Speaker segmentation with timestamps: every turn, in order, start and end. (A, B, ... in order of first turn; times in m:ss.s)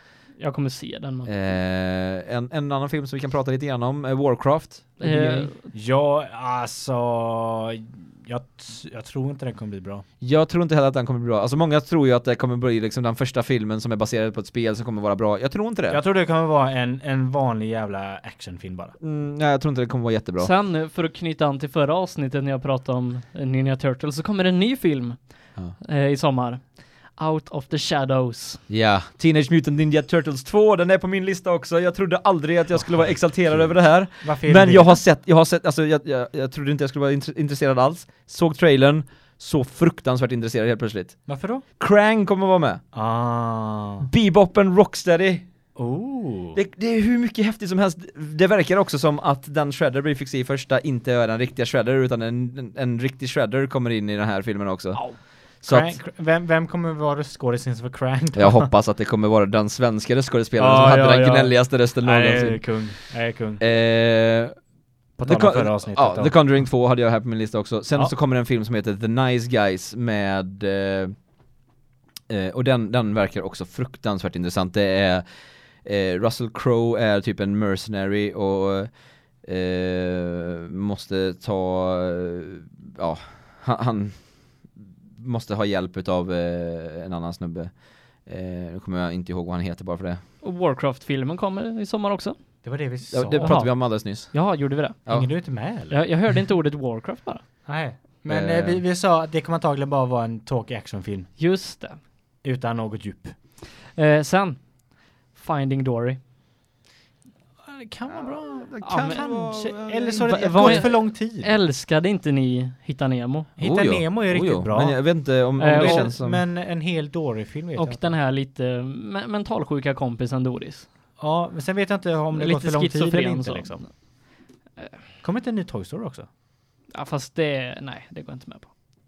0:00.4-0:01.3 A
0:01.2-0:05.5 B
0:05.0-0:05.7 A
0:05.7-0:10.0 C
0:10.2-0:16.0 B
0:15.9-0:19.0 C
0:19.0-0:20.5 B
0:20.4-0:28.6 A
0:28.7-0:42.8 B
0:33.5-0:35.0 C
0:41.3-0:41.6 C
0:42.9-0:44.1 C
0:44.0-0:45.4 B
0:45.8-0:46.6 C
0:46.5-0:56.0 B
0:55.6-0:58.7 C
0:58.3-1:03.0 B
1:00.6-1:03.6 C
1:03.6-1:04.5 B
1:05.2-1:06.6 C
1:05.2-1:11.1 B
1:12.3-1:15.2 B
1:15.8-1:30.2 B
1:30.4-1:32.4 A
1:32.6-1:33.5 C
1:33.1-1:35.3 B
1:33.4-1:35.0 A
1:35.1-1:36.0 C
1:35.9-1:37.4 A
1:37.6-1:41.3 C
1:38.3-1:38.8 B
1:41.4-1:42.0 A
1:42.4-1:43.4 C
1:43.8-1:46.2 A
1:47.6-1:51.5 C
1:48.1-1:50.9 B
1:48.8-1:49.5 A
1:50.2-1:53.5 A
1:53.6-1:58.1 C
1:53.6-1:56.4 B
1:55.6-1:56.1 A
1:57.8-2:00.9 A
2:01.2-2:03.8 C
2:02.3-2:03.9 A
2:05.2-2:06.3 C
2:06.9-2:08.7 A